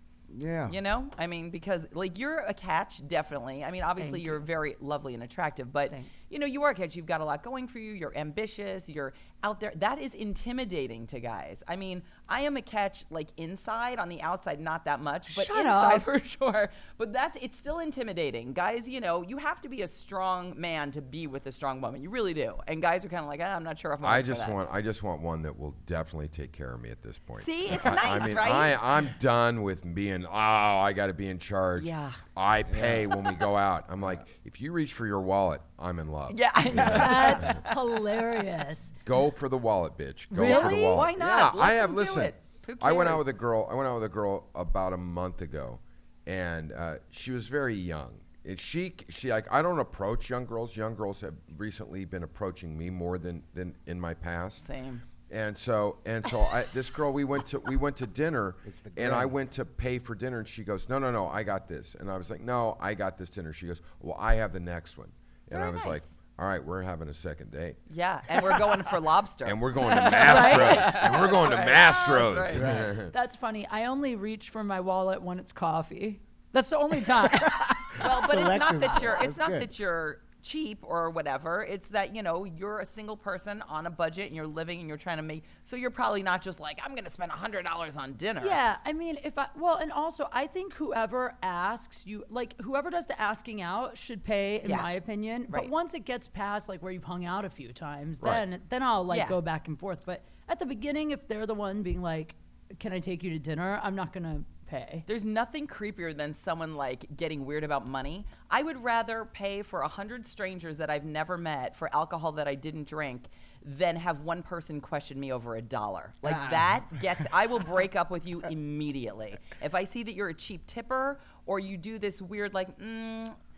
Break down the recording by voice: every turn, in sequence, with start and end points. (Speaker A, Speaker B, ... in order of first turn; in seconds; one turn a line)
Speaker A: 0.3-0.7
Speaker B: 0.7-24.6
Speaker C: 4.0-4.4
Speaker C: 5.9-6.2
Speaker C: 15.3-16.0
Speaker D: 24.0-37.6
Speaker B: 27.4-28.8
Speaker B: 31.8-32.2
Speaker A: 32.7-33.1
Speaker B: 36.3-38.4
Speaker A: 36.8-37.1
Speaker C: 36.8-38.9
Speaker D: 39.0-54.6
Speaker C: 40.3-41.0
Speaker B: 40.4-43.3
Speaker B: 54.6-55.0
Speaker D: 55.3-67.8
Speaker A: 58.6-59.3
Speaker B: 65.5-66.1
Speaker B: 67.9-72.7
Speaker D: 69.4-73.1
Speaker C: 70.2-71.3
Speaker A: 72.5-73.0
Speaker C: 73.1-78.2
Speaker A: 77.5-79.7
Speaker B: 77.8-88.6
Speaker C: 88.4-105.0
Speaker B: 94.6-94.9
Speaker B: 99.1-99.4
Speaker B: 105.1-123.3
Speaker A: 116.2-117.0